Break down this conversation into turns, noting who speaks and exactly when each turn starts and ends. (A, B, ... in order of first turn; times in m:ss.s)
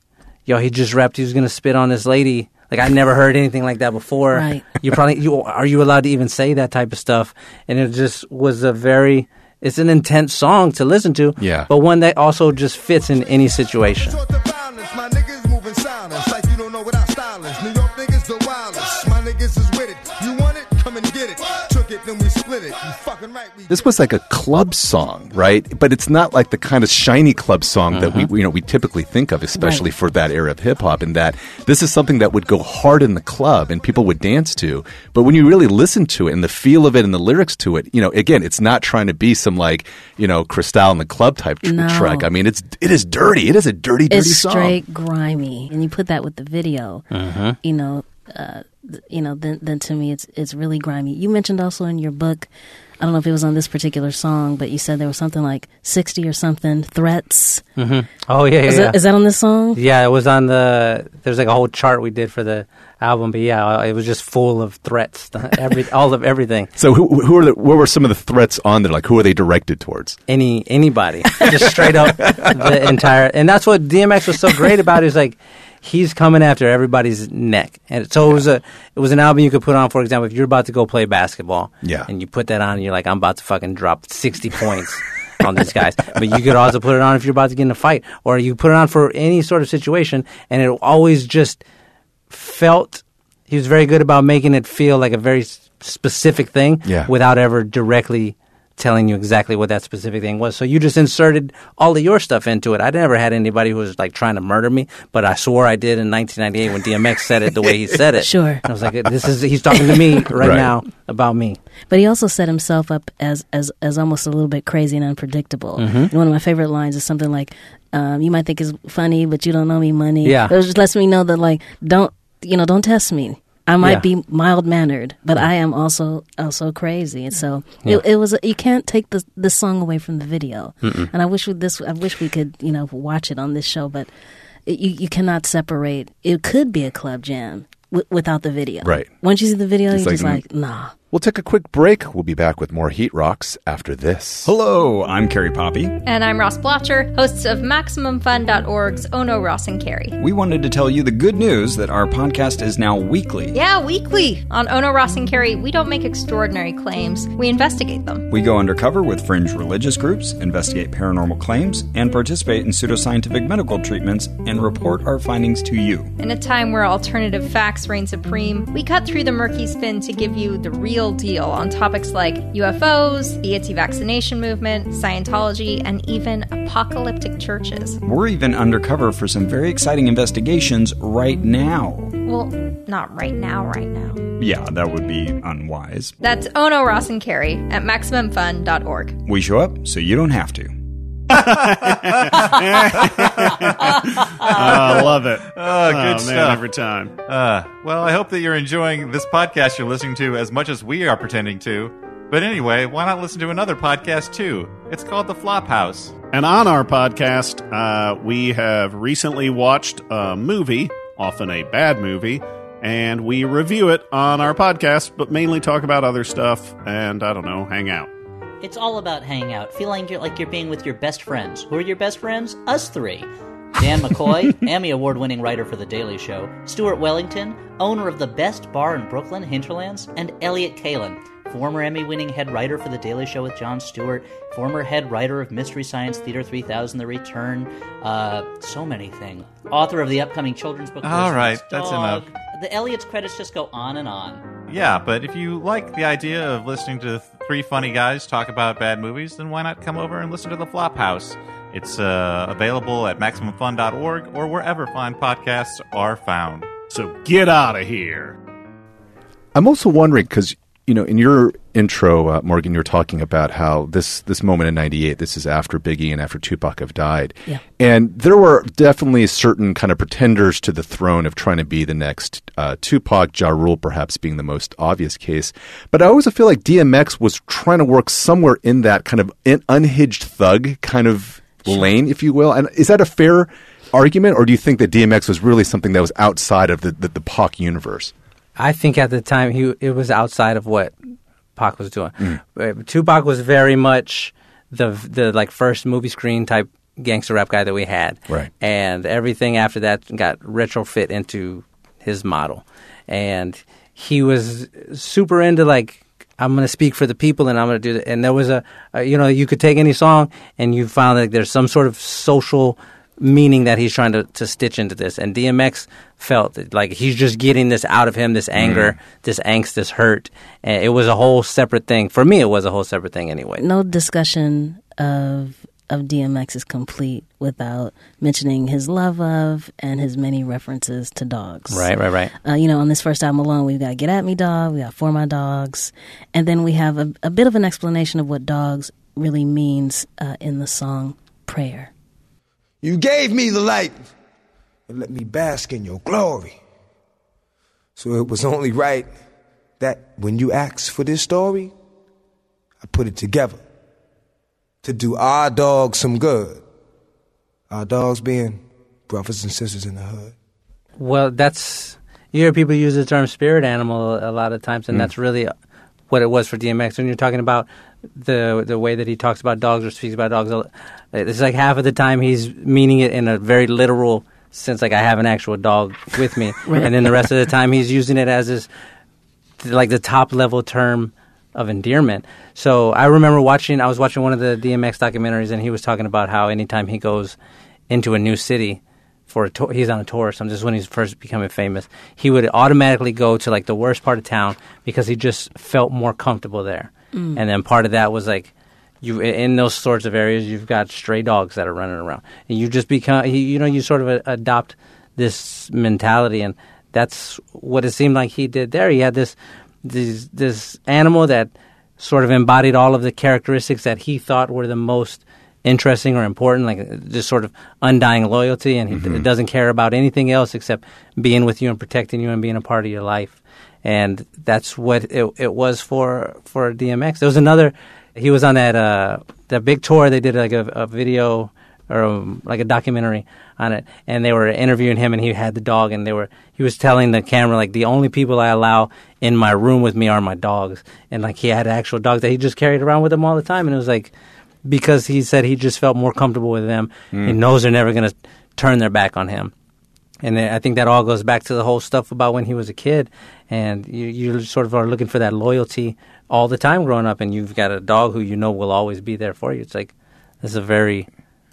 0:00.5-0:14.2 A
0:04.3-0:04.7 B
0:11.4-0:11.7 C
0:14.0-0:23.7 D
0:23.7-0:44.8 C
0:27.9-0:28.3 A
0:29.6-0:29.8 B
0:41.6-0:42.3 B
0:44.1-0:47.1 B
0:47.1-0:47.6 A
0:47.6-0:52.5 B
0:53.0-0:57.7 B
0:57.8-0:59.0 A
0:58.6-0:59.8 B
0:59.8-1:06.7 A
1:06.8-1:10.2 C
1:10.3-1:31.6 A
1:12.2-1:12.6 C
1:21.8-1:22.1 C
1:32.3-1:51.6 A
1:36.8-1:37.1 C
1:48.2-1:48.6 B
1:50.4-1:50.7 C
1:51.9-2:14.1 B
1:55.8-1:56.1 A
2:00.2-2:00.5 A
2:10.8-2:11.1 A
2:14.7-2:20.9 B
2:18.8-2:19.1 C
2:19.9-2:20.4 C
2:21.1-2:24.5 C
2:24.4-2:26.0 E
2:26.0-2:30.2 F
2:30.2-2:33.6 E
2:33.5-2:38.3 F
2:38.3-2:46.1 E
2:46.2-2:58.0 F
2:58.0-3:02.2 E
3:02.2-3:04.2 F
3:04.4-3:06.1 E
3:06.2-3:09.2 F
3:09.2-3:10.8 E
3:11.3-3:17.1 G
3:11.5-3:16.7 H
3:17.3-3:26.2 H
3:26.3-3:38.1 G
3:38.6-4:04.5 I
4:01.0-4:02.3 H
4:04.7-4:16.7 H
4:16.9-4:18.4 G
4:19.6-4:48.1 C
4:48.6-4:51.0 A
4:51.6-5:23.6 A
5:18.6-5:19.0 C
5:23.6-5:31.9 B
5:31.7-5:32.3 A
5:32.4-5:41.9 B
5:42.8-5:44.1 D
5:44.9-5:46.6 D
5:48.0-5:49.1 D
5:49.8-5:51.7 D
5:52.8-5:53.6 D
5:54.8-5:56.6 D
5:57.7-6:00.3 D
6:01.0-6:05.5 A
6:06.1-6:18.7 A
6:19.6-6:27.4 A
6:27.9-6:38.5 A
6:37.1-6:37.4 B
6:39.0-7:24.1 A
6:58.9-6:59.2 C
7:24.6-7:29.5 A
7:27.1-7:27.4 C
7:30.2-7:41.1 A